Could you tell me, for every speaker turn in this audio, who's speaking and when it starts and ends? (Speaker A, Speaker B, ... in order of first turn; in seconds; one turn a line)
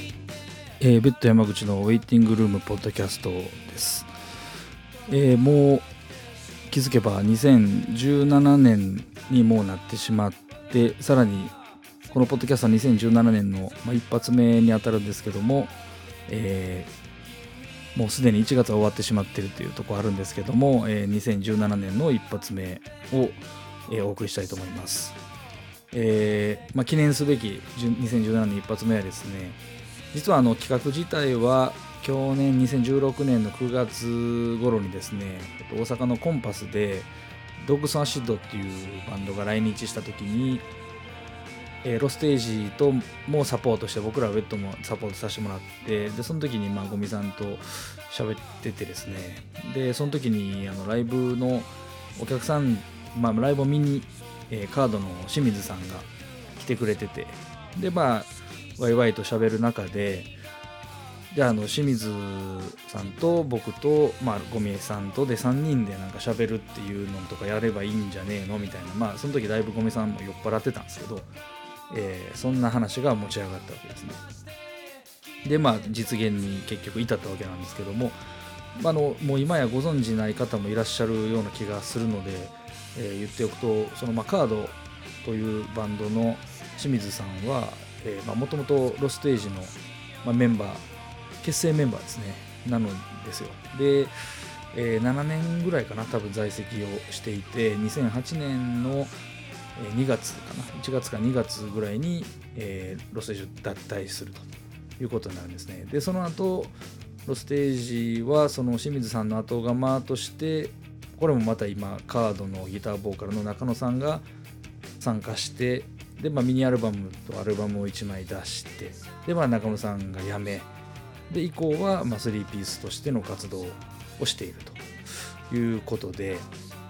Speaker A: 0.8-4.1
Speaker A: 5.1-5.9
Speaker A: 6.7-11.5
Speaker A: 12.1-15.7
Speaker A: 16.3-16.9
Speaker A: 17.9-25.2
Speaker A: 25.9-29.6
Speaker A: 30.1-40.6
Speaker A: 41.8-60.3
Speaker A: 61.3-71.3
Speaker A: 71.9-74.2
Speaker A: 75.4-78.2
Speaker A: 78.7-90.8
Speaker A: 91.4-94.1
Speaker A: 94.7-99.1
Speaker A: 99.8-104.5
Speaker A: 105.0-114.2
Speaker A: 115.0-120.7
Speaker A: 121.3-124.8
Speaker A: 125.5-126.5